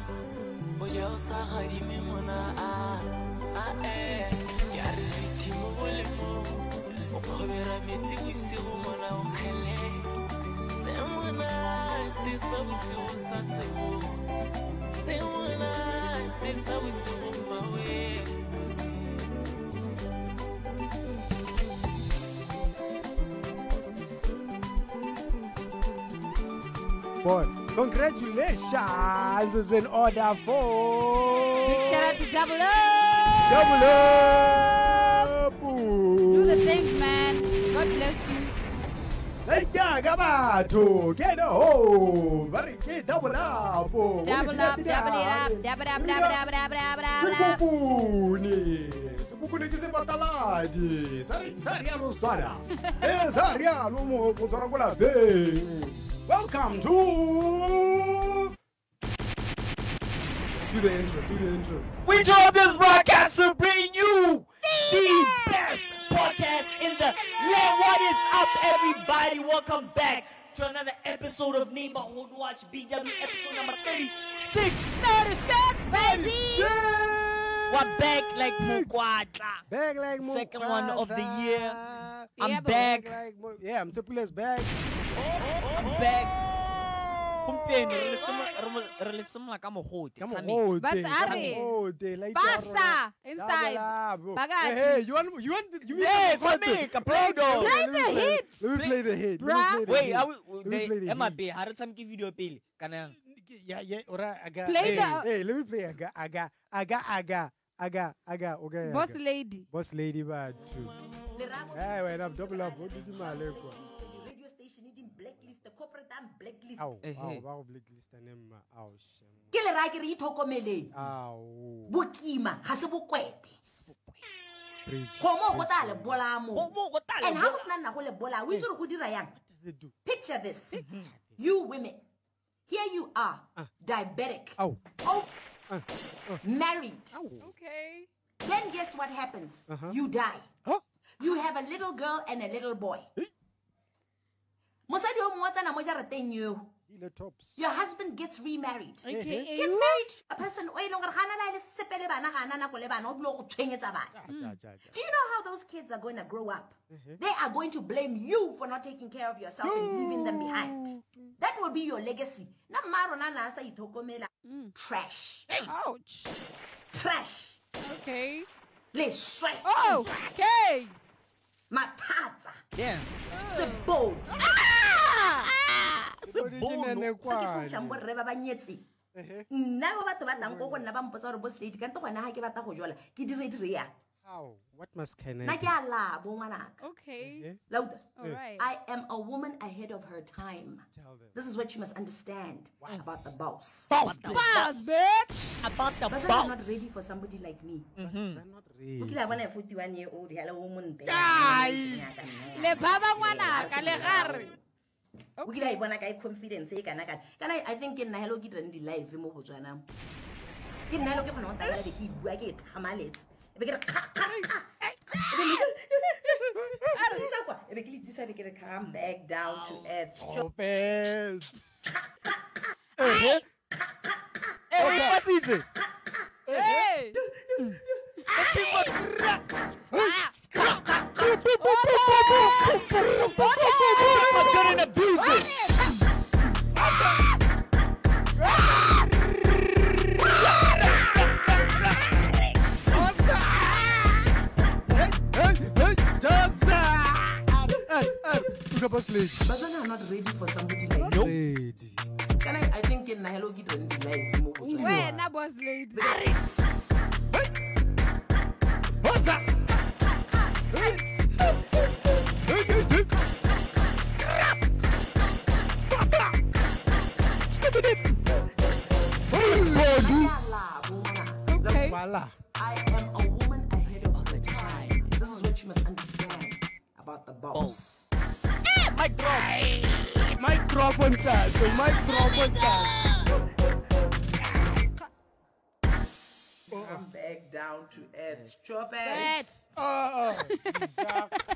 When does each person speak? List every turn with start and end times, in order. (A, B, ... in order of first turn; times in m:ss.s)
0:00.8-0:10.2 A
0:10.7-0:14.2 A
0:14.9-0:18.4 A
0:27.2-0:32.2 B
0:31.6-0:33.7 C
0:33.4-0:38.1 B
0:36.3-0:38.6 C
0:39.4-0:46.4 B
0:44.2-0:47.6 C
0:47.2-0:58.6 B
1:00.7-1:01.9 B
1:02.0-1:15.4 D
1:04.8-1:05.7 B
1:15.0-1:16.8 C
1:15.9-1:17.8 B
1:17.7-1:19.7 D
1:18.4-1:19.0 B
1:19.7-1:24.8 B
1:20.2-1:21.8 D
1:22.4-1:23.1 C
1:22.4-1:23.2 D
1:25.4-1:25.8 A
1:25.7-1:26.4 D
1:27.4-1:30.7 D
1:30.2-1:41.4 B
1:30.8-1:31.7 C
1:31.2-1:31.6 D
1:32.3-1:35.0 C
1:35.9-1:37.7 D
1:37.5-1:38.6 C
1:38.7-1:39.0 D
1:39.4-1:39.9 C
1:39.8-1:43.2 D
1:43.1-1:51.0 B
1:44.6-1:45.3 C
1:44.8-1:45.2 D
1:48.8-1:49.7 C
1:51.3-1:56.9 E
1:51.7-1:53.8 B
1:55.4-1:55.6 B
1:56.8-1:59.6 B
1:57.0-1:57.4 D
1:59.5-2:00.9 E
2:00.9-2:02.0 B
2:01.9-2:03.6 E
2:03.6-2:04.2 B
2:04.8-2:06.2 B
2:05.2-2:09.4 E
2:06.5-2:07.7 D
2:09.3-2:10.0 B
2:10.0-2:12.0 E
2:10.7-2:11.4 B
2:10.8-2:11.1 D
2:12.7-2:15.3 E
2:14.6-2:14.9 B
2:15.7-2:16.4 B
2:16.4-2:17.2 E
2:17.1-2:17.5 B
2:17.4-2:18.1 C
2:18.4-2:20.5 E
2:19.7-2:20.0 B
2:21.2-2:23.1 E
2:24.9-2:26.7 E
2:26.9-2:27.6 B
2:27.6-2:34.2 E
2:29.0-2:30.0 C
2:29.1-2:29.5 B
2:34.1-2:35.0 B
2:34.3-2:34.6 C
2:34.9-2:45.6 E
2:36.9-2:37.2 B
2:39.6-2:41.4 B
2:44.4-2:44.8 C
2:45.6-2:46.4 C
2:46.9-2:47.6 E
2:47.8-2:48.5 C
2:48.9-2:50.0 E
2:49.6-2:51.0 C
2:51.7-2:52.6 E
2:52.8-2:53.1 D
2:53.3-2:53.9 C
2:53.5-2:54.6 E
2:54.5-2:57.1 D
2:54.8-2:55.5 C
2:56.2-2:58.1 B
2:57.2-2:58.9 E
2:59.1-2:59.5 B
2:59.5-3:04.0 E
3:00.2-3:00.9 B
3:04.2-3:05.8 B
3:05.4-3:06.8 E
3:06.8-3:07.5 C
3:07.2-3:07.6 B
3:07.7-3:13.9 E
3:08.2-3:08.7 C
3:10.9-3:11.4 B
3:12.8-3:13.3 B
3:13.9-3:14.5 B
3:13.9-3:14.9 D
3:14.3-3:15.6 C
3:15.6-3:16.9 D
3:16.1-3:17.9 E
3:18.0-3:18.4 D
3:18.0-3:19.4 B
3:19.0-3:24.6 E
3:21.0-3:22.4 B
3:22.6-3:24.5 C
3:23.2-3:24.3 B
3:25.4-3:25.7 C
3:25.4-3:29.9 E
3:30.9-3:34.7 E
3:31.6-3:32.0 B
3:34.2-3:35.6 B
3:35.3-3:40.5 E
3:36.4-3:37.2 B
3:39.4-3:39.9 D
3:40.2-3:42.0 B
3:43.0-3:43.4 C
3:43.0-3:43.4 B
3:44.7-3:45.6 D
3:44.8-3:45.6 B
3:46.5-3:46.9 B
3:46.5-3:47.2 C
3:47.3-3:47.7 E
3:48.3-3:49.4 D
3:48.4-3:49.3 B
3:49.9-3:55.9 B
3:49.9-3:50.3 C
3:51.6-3:54.7 C
3:52.2-3:55.5 D
3:55.3-3:55.9 C
3:56.7-3:57.3 B
3:58.4-3:59.2 B
4:00.2-4:01.9 B
4:00.5-4:03.0 D
4:02.9-4:09.5 B
4:09.4-4:11.3 E
4:11.0-4:11.4 D
4:11.0-4:12.0 B
4:12.4-4:15.1 E
4:14.6-4:15.3 B
4:14.8-4:16.1 C
4:15.9-4:16.5 E
4:19.0-4:19.6 B
4:20.7-4:23.4 B
4:24.0-4:24.4 B
4:25.9-4:26.4 B
4:27.5-4:28.6 B
4:29.3-4:32.0 E
4:29.3-4:30.4 B
4:31.5-4:32.0 C
4:31.8-4:32.4 B
4:32.6-4:38.1 E
4:33.8-4:35.5 D
4:37.5-4:38.0 D
4:38.6-4:40.4 D
4:40.3-4:43.1 B
4:41.4-4:43.3 D
4:43.3-4:44.3 E
4:46.7-4:49.5 E
4:46.7-4:47.0 B
4:49.0-4:49.6 C
4:49.8-4:51.4 B